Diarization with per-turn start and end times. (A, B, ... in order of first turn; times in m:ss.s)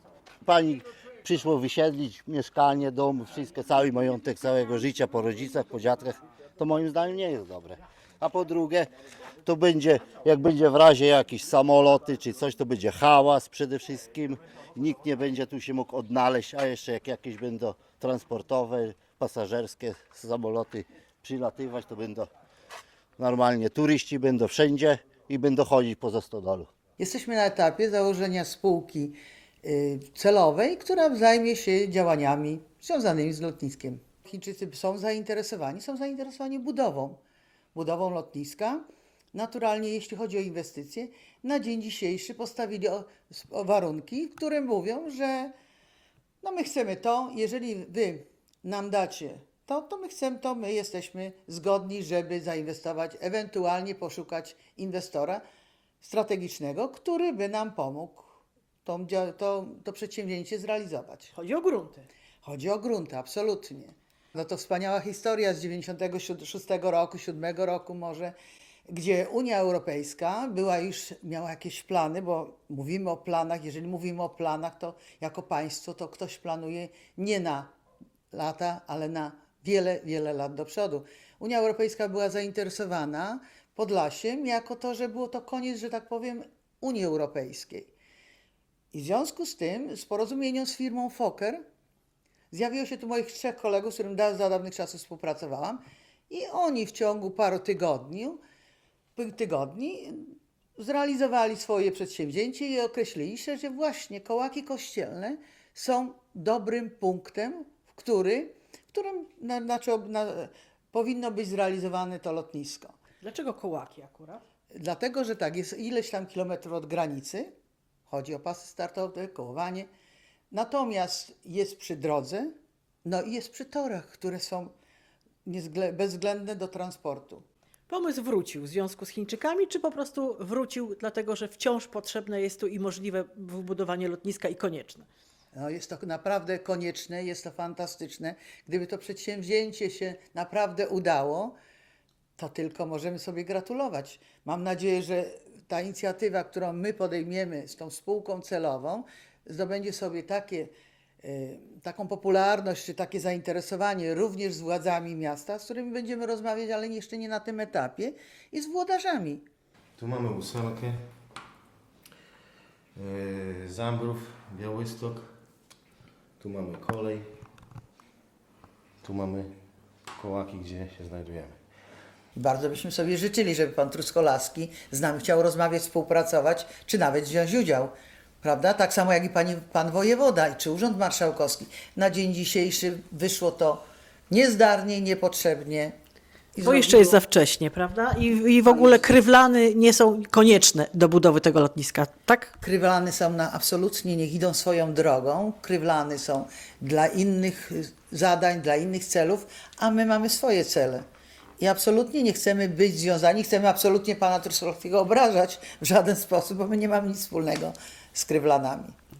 0:00.4-0:08.9 A
0:09.4-0:22.3 A
0:23.2-0:26.7 A
0:27.0-0:37.2 B
0:37.7-0:45.5 B
0:46.4-0:55.4 B
0:56.0-1:01.3 B
1:01.3-1:02.1 C
1:02.4-1:08.3 B
1:08.9-1:17.7 B
1:18.3-1:27.9 B
1:28.9-1:31.6 B
1:32.5-1:38.4 B
1:39.2-1:52.9 B
1:53.2-1:54.4 C
1:54.7-1:57.5 B
1:58.1-1:59.9 B
2:00.5-2:02.5 B
2:03.0-2:04.7 B
2:05.4-2:07.4 B
2:07.9-2:15.1 C
2:15.5-2:21.6 B
2:22.4-2:39.4 B
2:40.0-2:41.0 D
2:43.0-2:45.3 D
2:46.4-2:47.3 D
2:49.0-2:49.5 D
2:50.1-2:51.6 D
2:52.4-3:06.0 B
3:06.5-3:07.2 B
3:06.6-3:12.5 C
3:08.6-3:09.0 B
3:12.6-3:21.0 B
3:21.6-3:29.0 B